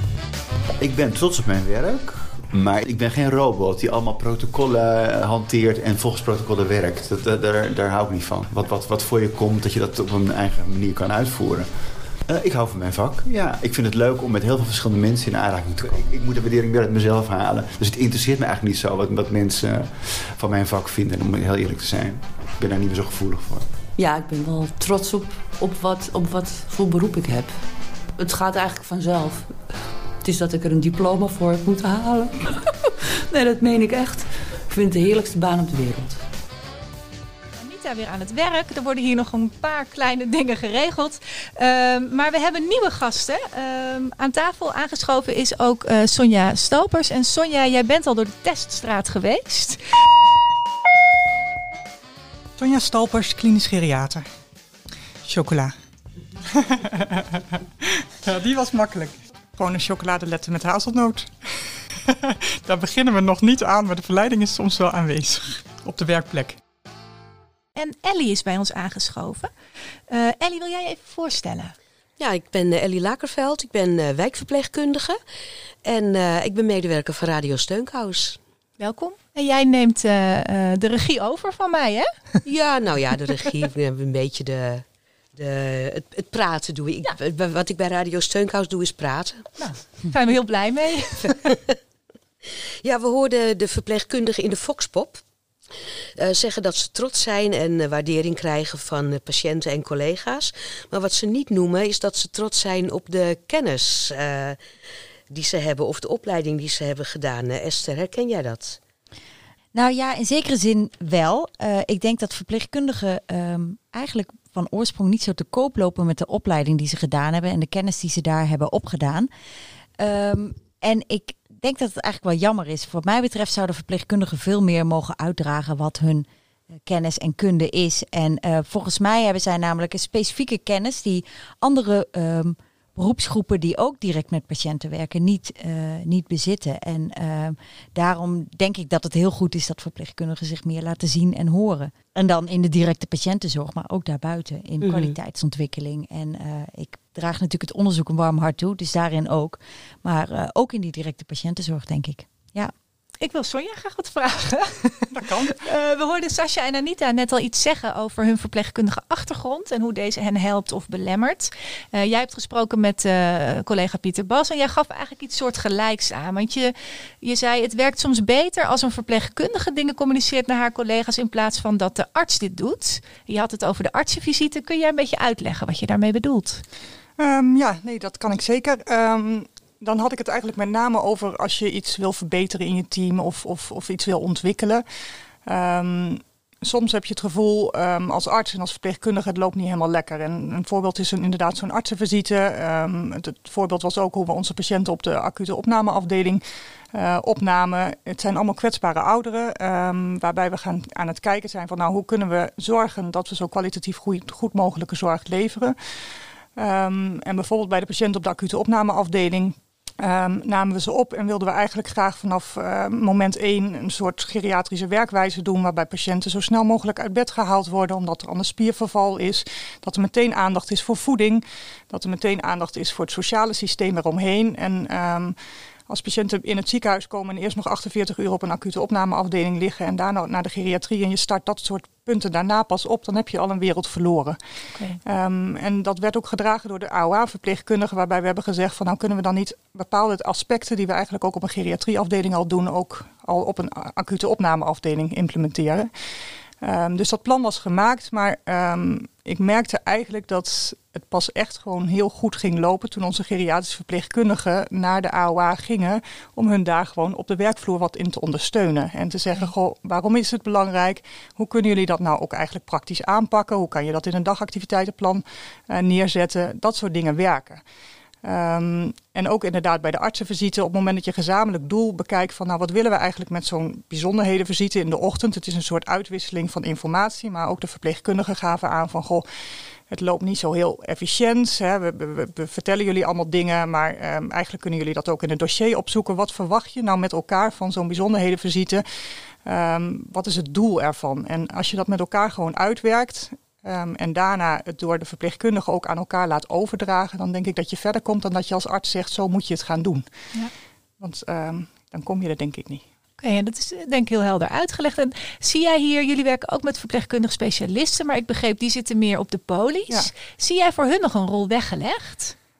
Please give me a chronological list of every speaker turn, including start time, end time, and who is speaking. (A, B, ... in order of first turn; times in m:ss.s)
0:00.8-0:23.7 A
0:24.0-0:32.5 B
0:33.3-0:36.2 B
0:37.6-0:49.8 C
0:52.6-0:54.3 D
0:55.2-0:55.7 D
0:56.5-1:06.6 D
1:07.8-1:09.5 C
1:10.1-1:11.8 C
1:12.2-1:15.2 E
1:15.8-1:18.4 E
1:18.8-1:22.3 C
1:22.4-1:24.8 E
1:25.4-1:29.5 E
1:29.6-1:31.5 C
1:32.8-1:35.2 E
1:36.2-1:44.7 E
1:45.3-1:48.8 E
1:49.7-1:59.3 F
2:00.0-2:06.3 F
2:06.8-2:32.7 F
2:24.8-2:25.2 E
2:33.2-2:35.0 C
2:35.1-2:35.6 D
2:35.6-2:56.6 C
2:57.2-3:04.8 D
3:05.4-3:25.8 D
3:26.6-3:45.4 D
3:45.9-3:54.4 D
3:54.7-3:55.0 C
3:55.0-4:05.9 D
4:06.6-4:27.6 D
4:28.2-4:39.3 D
4:39.9-4:48.8 D
4:49.4-5:00.1 D
5:01.0-5:02.8 D
5:03.2-5:12.4 C